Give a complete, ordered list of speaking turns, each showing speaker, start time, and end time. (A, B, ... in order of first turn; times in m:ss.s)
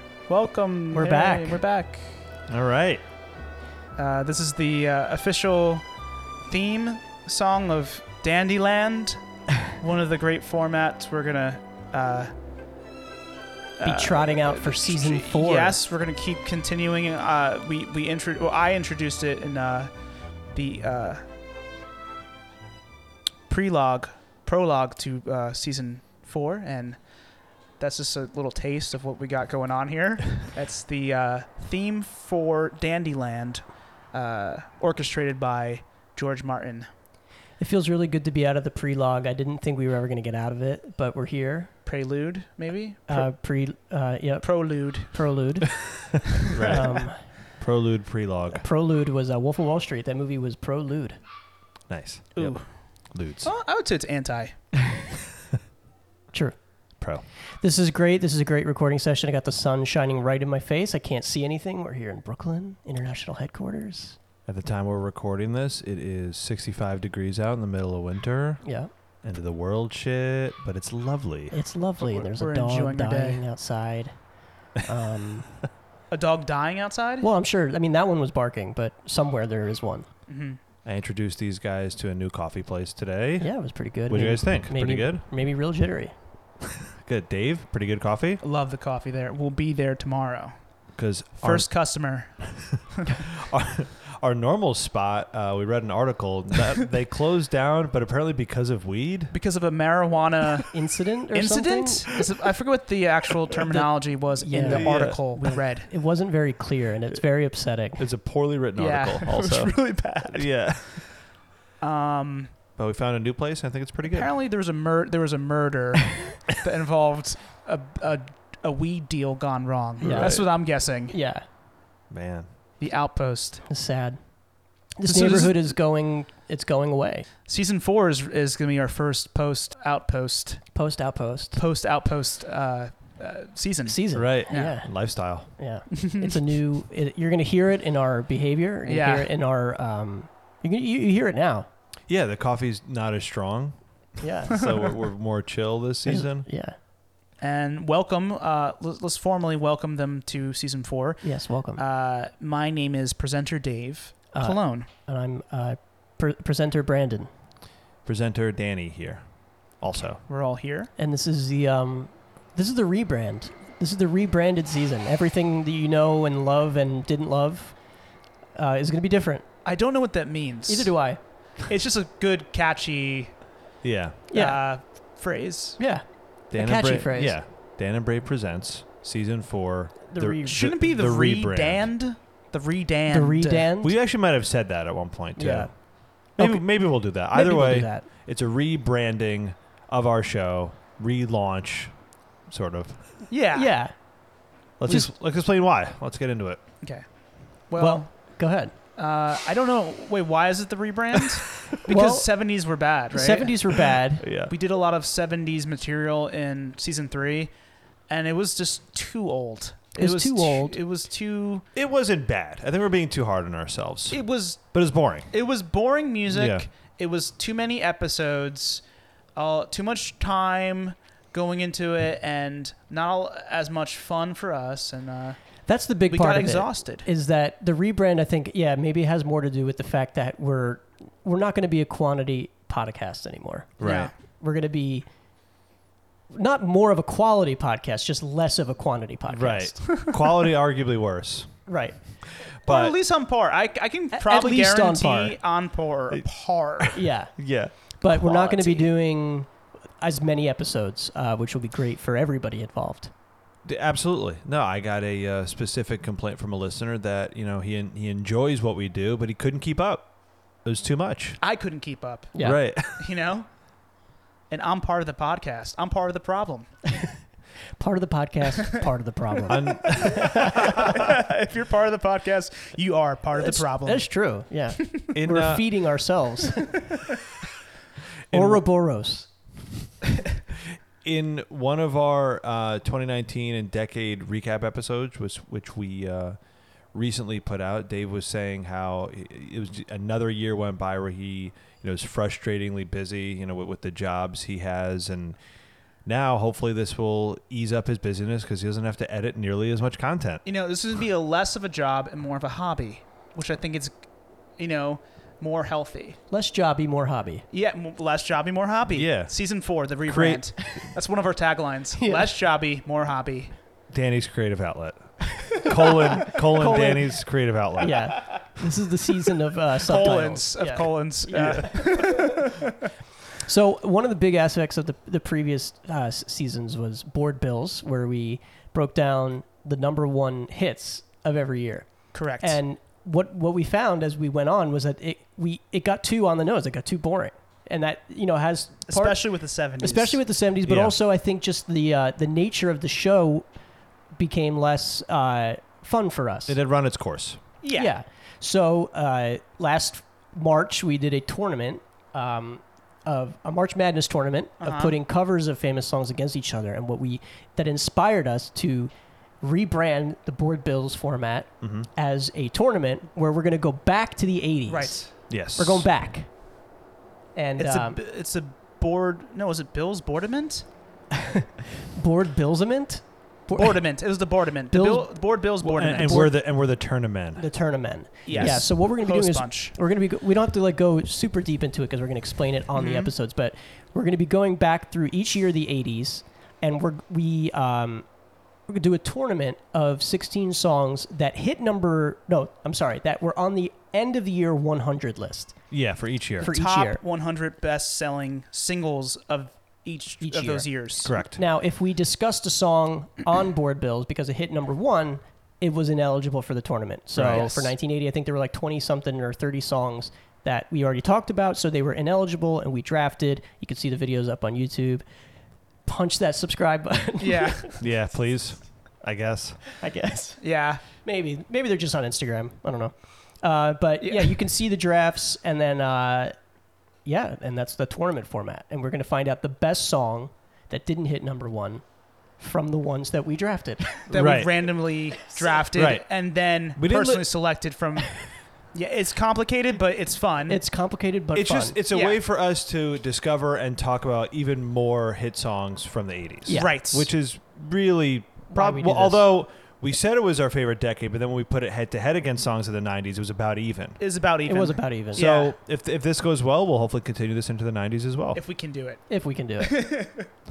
0:00.3-0:02.2 A
0:00.9-0:01.6 B
0:02.5-0:03.0 C
0:04.0-0:05.8 A
0:06.4-0:12.3 A
0:13.8-0:19.9 A
0:13.8-0:15.8 B
0:20.5-0:21.2 A
0:23.5-0:27.0 A
0:27.8-0:36.9 A
0:37.6-0:41.7 B
0:41.9-0:43.3 A
0:43.1-0:47.2 B
0:44.4-0:45.2 A
0:46.5-0:46.8 A
0:46.5-0:48.6 C
0:48.5-0:51.2 B
0:51.9-0:53.5 C
0:52.4-0:54.6 A
0:56.3-0:56.6 B
0:57.6-1:04.2 B
1:04.5-1:08.6 C
1:08.6-1:08.9 B
1:09.2-1:11.5 C
1:11.5-1:14.1 B
1:12.0-1:13.4 A
1:14.8-1:15.5 B
1:16.1-1:17.3 A
1:17.2-1:20.1 B
1:20.3-1:20.6 A
1:20.8-1:23.5 C
1:23.4-1:26.1 B
1:24.1-1:25.2 C
1:26.9-1:28.4 C
1:28.4-1:30.6 A
1:31.0-1:31.7 C
1:31.4-1:33.2 A
1:32.6-1:39.3 C
1:39.3-1:40.7 A
1:40.7-1:42.1 B
1:41.3-1:45.9 A
1:43.7-1:48.0 B
1:44.6-1:45.2 C
1:48.0-1:49.8 C
1:48.8-1:51.1 A
1:50.3-1:51.1 C
1:51.8-1:52.6 A
1:52.8-1:54.3 C
1:54.0-2:01.2 A
2:00.0-2:00.5 B
2:00.0-2:00.4 C
2:01.1-2:01.4 B
2:02.1-2:02.5 C
2:02.8-2:03.7 A
2:03.7-2:04.2 B
2:05.0-2:07.3 B
2:05.1-2:05.7 A
2:07.5-2:10.6 A
2:10.8-2:11.6 B
2:11.6-2:14.7 A
2:13.8-2:14.9 B
2:14.1-2:15.5 C
2:15.5-2:21.7 B
2:15.9-2:16.4 A
2:18.9-2:19.3 A
2:22.1-2:23.8 C
2:24.2-2:24.7 B
2:24.5-2:26.5 C
2:26.1-2:26.8 B
2:27.4-2:34.9 A
2:31.2-2:31.8 B
2:34.3-2:37.3 B
2:38.0-2:39.2 C
2:39.8-2:40.2 C
2:40.3-2:40.9 A
2:41.0-2:47.8 B
2:48.6-2:49.5 B
2:49.6-2:51.0 A
2:50.7-2:51.2 B
2:51.6-2:53.4 A
2:53.8-2:54.2 C
2:54.3-2:54.6 B
2:54.3-2:55.8 A
2:55.8-2:57.4 B
2:56.5-3:01.9 C
3:00.1-3:00.6 B
3:00.4-3:03.7 A
3:03.1-3:04.0 B
3:03.8-3:05.7 C
3:05.4-3:05.7 B
3:06.2-3:08.1 B
3:06.4-3:13.0 C
3:13.3-3:13.7 A
3:13.5-3:13.9 B
3:14.8-3:16.6 C
3:17.7-3:18.4 A
3:17.8-3:18.7 B
3:19.0-3:23.9 A
3:21.9-3:22.3 B
3:23.1-3:24.3 B
3:24.2-3:24.5 C
3:24.5-3:27.5 A
3:28.1-3:31.6 A
3:30.0-3:30.8 B
3:31.8-3:35.3 C
3:34.1-3:34.7 A
3:35.3-3:38.8 A
3:36.3-3:36.7 C
3:39.4-3:45.4 A
3:45.7-3:55.1 B
3:46.1-3:47.1 A
3:53.8-3:54.1 C
3:53.8-3:54.1 A
3:56.3-3:59.8 B
3:59.3-4:01.6 C
3:59.9-4:00.2 A
4:01.7-4:02.0 B
4:02.6-4:03.0 C
4:02.6-4:07.0 A
4:04.1-4:05.4 B
4:06.8-4:08.7 C
4:06.9-4:07.4 B
4:08.0-4:13.1 B
4:13.6-4:21.4 C
4:21.4-4:23.5 A
4:22.3-4:22.6 B
4:22.4-4:23.1 C
4:24.5-4:26.7 A
4:27.8-4:30.9 B
4:29.5-4:31.0 C
4:30.4-4:34.1 A
4:33.4-4:36.8 B
4:35.1-4:35.6 C
4:38.3-4:38.6 C
4:38.3-4:39.3 B
4:41.0-4:46.4 C
4:46.9-4:55.4 C
4:56.0-5:00.4 C
5:00.4-5:03.9 A
5:04.6-5:06.2 A
5:06.3-5:07.4 B
5:07.5-5:13.5 A
5:09.0-5:09.3 C
5:10.1-5:10.4 C
5:12.0-5:12.3 B
5:13.9-5:18.1 C
5:15.8-5:17.2 B
5:17.8-5:22.5 B
5:19.8-5:22.8 A
5:23.4-5:39.2 B
5:32.1-5:32.6 A
5:38.9-5:40.2 A
5:39.8-5:43.5 B
5:40.7-5:40.9 C
5:44.2-5:46.6 B
5:46.5-5:47.4 C
5:47.6-5:47.9 A
5:47.7-6:06.3 B
5:54.6-5:55.0 A
6:01.6-6:01.9 C
6:04.7-6:05.1 A
6:05.3-6:05.9 C
6:07.4-6:08.0 B
6:07.6-6:10.7 A
6:11.2-6:13.9 B
6:13.6-6:16.3 A
6:14.7-6:15.1 B
6:15.6-6:17.4 C
6:15.8-6:16.4 B
6:17.4-6:28.1 B
6:18.3-6:19.8 A
6:18.3-6:18.7 C
6:22.8-6:23.1 A
6:28.7-6:35.6 B
6:35.7-6:36.5 C
6:36.4-6:37.0 B
6:36.4-6:41.2 A
6:40.2-6:40.7 B
6:41.0-6:41.4 C
6:41.4-6:55.0 B
6:47.2-6:47.5 C
6:47.3-6:47.7 A
6:55.9-6:57.7 B
6:57.2-6:57.8 A
6:57.8-6:59.6 C
6:59.8-7:06.4 B
7:00.4-7:00.8 A
7:04.0-7:04.4 A
7:07.0-7:11.8 B
7:12.4-7:14.1 B
7:14.1-7:20.6 A
7:14.1-7:14.7 C
7:15.7-7:16.0 C
7:16.8-7:17.3 C
7:20.5-7:21.8 B
7:21.3-7:34.0 C
7:21.9-7:22.2 A
7:26.5-7:26.7 B
7:26.5-7:27.1 A
7:28.5-7:29.3 B
7:34.0-7:35.6 A
7:34.5-7:35.2 B
7:35.2-7:38.4 C
7:38.4-7:39.1 A
7:39.1-7:39.8 B
7:39.6-7:40.3 A